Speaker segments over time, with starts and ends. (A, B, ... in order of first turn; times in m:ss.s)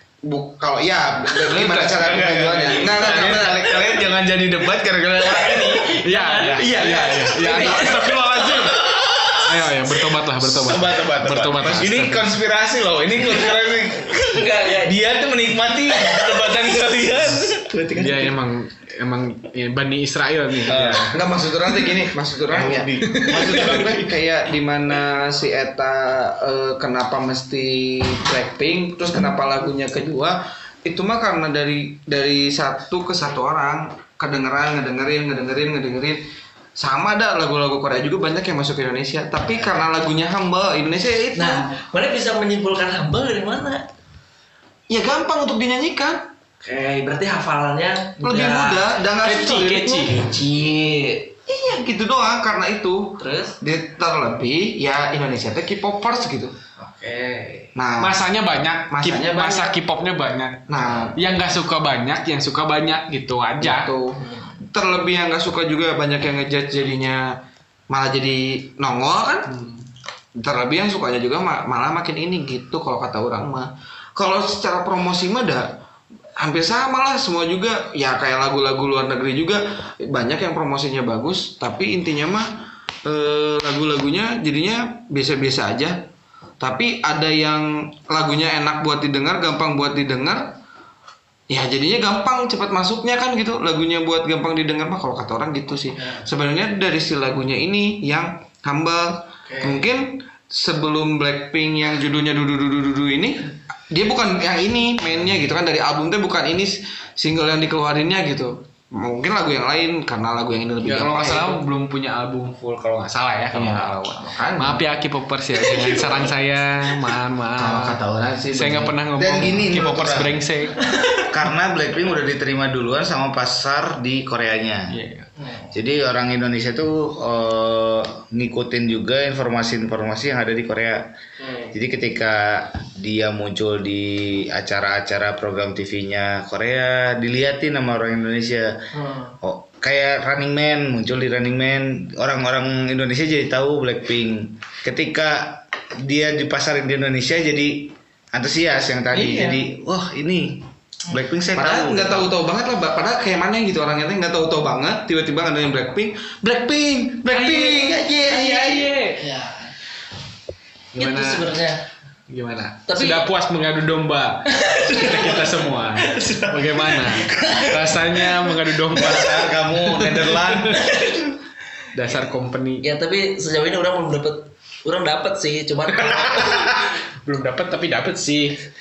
0:00.2-0:03.7 A
0:01.5-0:06.8 B
0:02.2-0:03.5 C
0:05.3-0:08.4 D
0:06.0-0:12.3 C
0:08.5-0:17.8 B
0:14.0-0:15.0 D
0:18.0-0:21.2 C
0:20.7-0:21.2 B
0:20.7-0:41.7 A
0:22.5-0:24.0 B
0:23.0-0:24.0 C
0:41.3-0:43.8 D
0:44.9-0:46.3 A
0:46.6-0:48.8 D
0:48.2-0:50.2 A
0:49.2-0:50.2 C
0:50.0-0:51.4 D
0:51.5-0:56.6 A
0:53.2-0:53.6 D
0:56.8-0:57.7 D
0:57.7-0:58.2 A
0:58.0-1:03.9 C
0:58.9-0:59.8 A
1:00.7-1:01.2 A
1:03.6-1:07.4 A
1:04.2-1:04.6 D
1:07.9-1:09.5 A
1:09.5-1:09.8 C
1:10.4-1:15.7 A
1:16.4-1:26.0 A
1:26.6-1:30.6 A
1:31.5-1:51.6 A
1:36.0-1:36.2 D
1:39.5-1:39.8 D
1:50.8-1:58.0 C
1:53.5-1:54.8 A
1:57.6-1:59.0 A
1:58.5-2:00.8 C
1:59.2-2:00.4 B
2:01.2-2:05.0 B
2:04.9-2:05.3 C
2:05.4-2:05.8 D
2:05.7-2:11.0 B
2:11.4-2:11.7 D
2:11.7-2:18.8 B
2:18.9-2:19.4 D
2:19.4-2:32.3 B
2:29.1-2:29.6 A
2:31.5-2:39.0 A
2:37.3-2:39.2 C
2:39.0-2:39.7 D
2:40.9-2:41.5 C
2:41.0-2:41.8 D
2:42.3-2:50.8 C
2:42.9-2:43.3 D
2:44.5-2:48.5 D
2:48.9-2:51.0 B
2:50.9-2:51.2 D
2:51.9-2:52.9 C
2:52.8-2:56.7 D
2:56.0-2:58.6 C